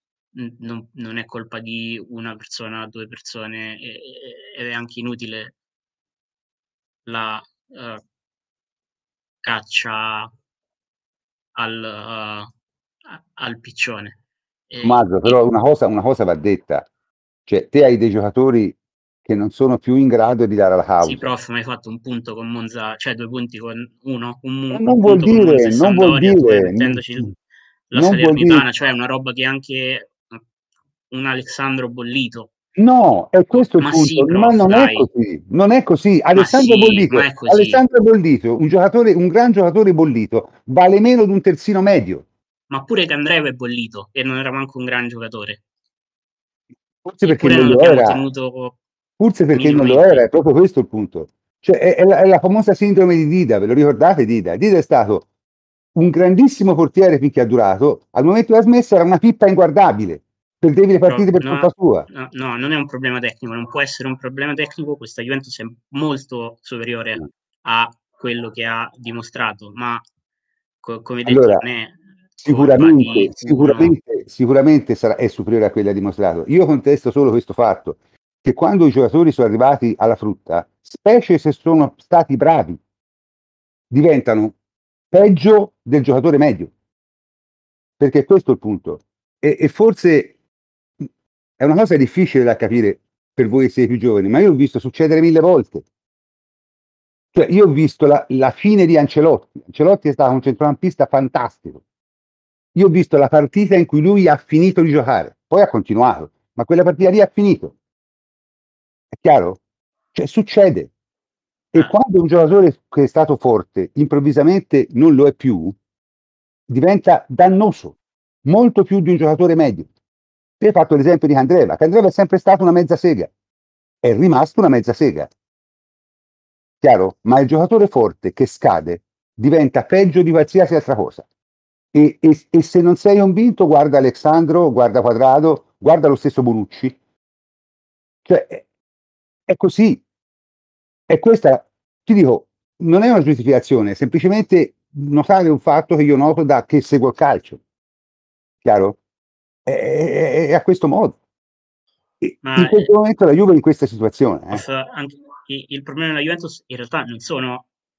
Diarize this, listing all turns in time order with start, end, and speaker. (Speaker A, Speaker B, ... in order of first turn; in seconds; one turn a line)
Speaker A: 0.3-5.5
Speaker A: 7.1-8.0
Speaker A: 9.4-10.3
Speaker A: 11.6-12.5
Speaker A: 13.0-14.2
Speaker A: 14.7-15.4
Speaker B: 14.8-16.9
Speaker B: 17.5-21.3
Speaker A: 21.0-27.3
Speaker B: 24.7-27.0
Speaker A: 27.9-30.4
Speaker B: 27.9-28.6
Speaker A: 31.1-32.5
Speaker B: 32.8-42.2
Speaker A: 33.6-35.1
Speaker A: 36.4-37.8
Speaker A: 42.7-45.6
Speaker B: 47.0-48.2
Speaker A: 47.2-48.8
Speaker B: 49.2-55.2
Speaker A: 49.5-50.2
Speaker B: 56.0-62.1
Speaker A: 61.1-70.0
Speaker A: 70.8-74.0
Speaker B: 71.2-71.6
Speaker B: 72.4-82.8
Speaker B: 83.9-84.5
Speaker B: 85.1-86.7
Speaker B: 88.0-90.3
Speaker B: 91.6-95.8
Speaker B: 97.3-101.8
Speaker B: 102.7-107.7
Speaker B: 109.1-109.6
Speaker B: 110.1-110.9
Speaker B: 111.7-115.8
Speaker B: 116.7-119.9
Speaker B: 120.6-123.3
Speaker B: 124.0-125.3
Speaker B: 126.8-131.2
Speaker B: 131.9-136.9
Speaker B: 138.2-138.6
Speaker B: 139.5-140.0
Speaker B: 141.1-147.6
Speaker B: 148.6-149.0
Speaker B: 149.7-151.2
Speaker B: 152.2-154.6
Speaker A: 152.4-152.9
Speaker A: 154.5-157.7